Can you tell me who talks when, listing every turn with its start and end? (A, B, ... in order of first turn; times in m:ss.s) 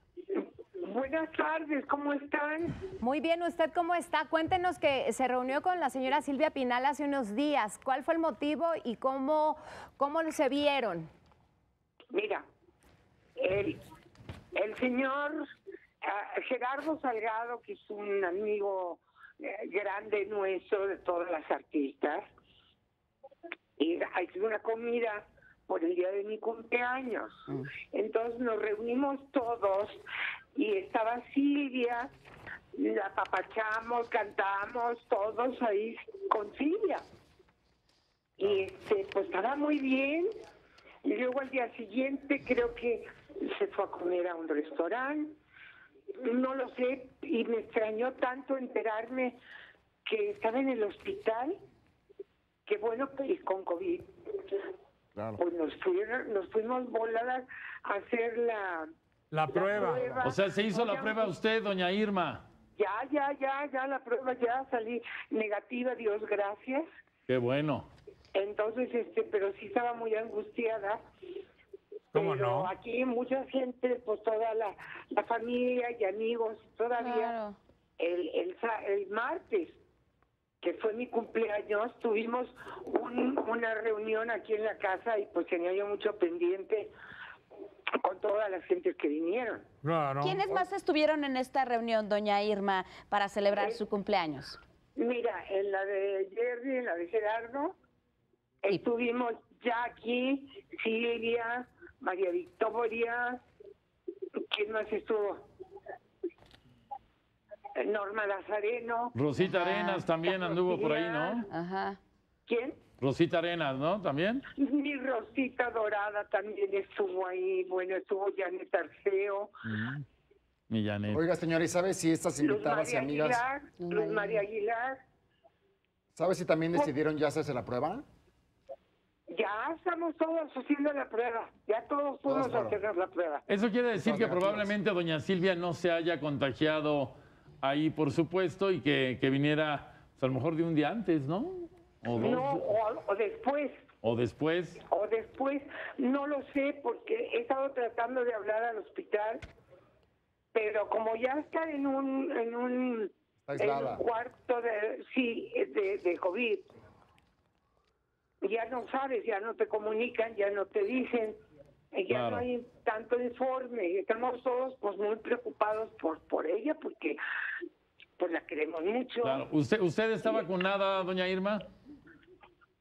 0:00.4-0:02.8 A
0:03.0-0:11.1 B
0:12.1-0:12.4 A
0:13.4-0:13.8 A
0:14.5-0:15.4 A
0:16.0-0:22.2 A
0:23.8-0:30.0 A
0:30.5-0:32.1 A
0:32.7-0:37.0 A
0:38.4-0:40.3 A
0:41.0-0:45.4 A
0:46.2-0:49.4 A
0:50.0-0:51.6 A
0:52.6-0:54.1 A
0:55.4-0:58.8 A
0:59.3-1:00.0 C
0:59.5-1:01.3 A
1:00.2-1:02.4 D
1:02.8-1:06.8 A
1:07.3-1:07.9 D
1:08.3-1:11.0 A
1:12.1-1:17.3 A
1:12.1-1:12.7 C
1:17.0-1:17.6 E
1:18.0-1:19.8 A
1:20.6-1:26.9 A
1:28.0-1:29.6 A
1:29.8-1:30.4 C
1:30.2-1:34.6 E
1:33.5-1:33.8 A
1:35.0-1:37.8 A
1:38.6-1:43.4 A
1:44.5-1:45.4 A
1:47.8-1:49.2 A
1:49.1-1:51.5 D
1:49.4-1:50.1 E
1:50.2-1:51.4 A
1:51.5-1:52.0 E
1:52.5-1:52.8 A
1:53.0-1:54.4 D
1:54.5-1:59.5 A
1:59.6-2:00.0 D
2:00.7-2:01.2 D
2:01.1-2:03.4 F
2:02.4-2:05.0 A
2:03.8-2:04.4 E
2:06.1-2:08.0 F
2:09.3-2:13.4 A
2:12.3-2:12.8 F
2:13.5-2:22.6 D
2:13.9-2:14.7 F
2:22.1-2:23.7 A
2:24.0-2:24.8 D
2:24.8-2:29.4 A
2:30.5-2:36.7 A
2:33.4-2:34.0 F
2:38.4-2:41.4 A
2:41.9-2:47.2 A
2:42.1-2:42.5 D
2:48.2-2:49.4 A
2:49.2-2:51.6 D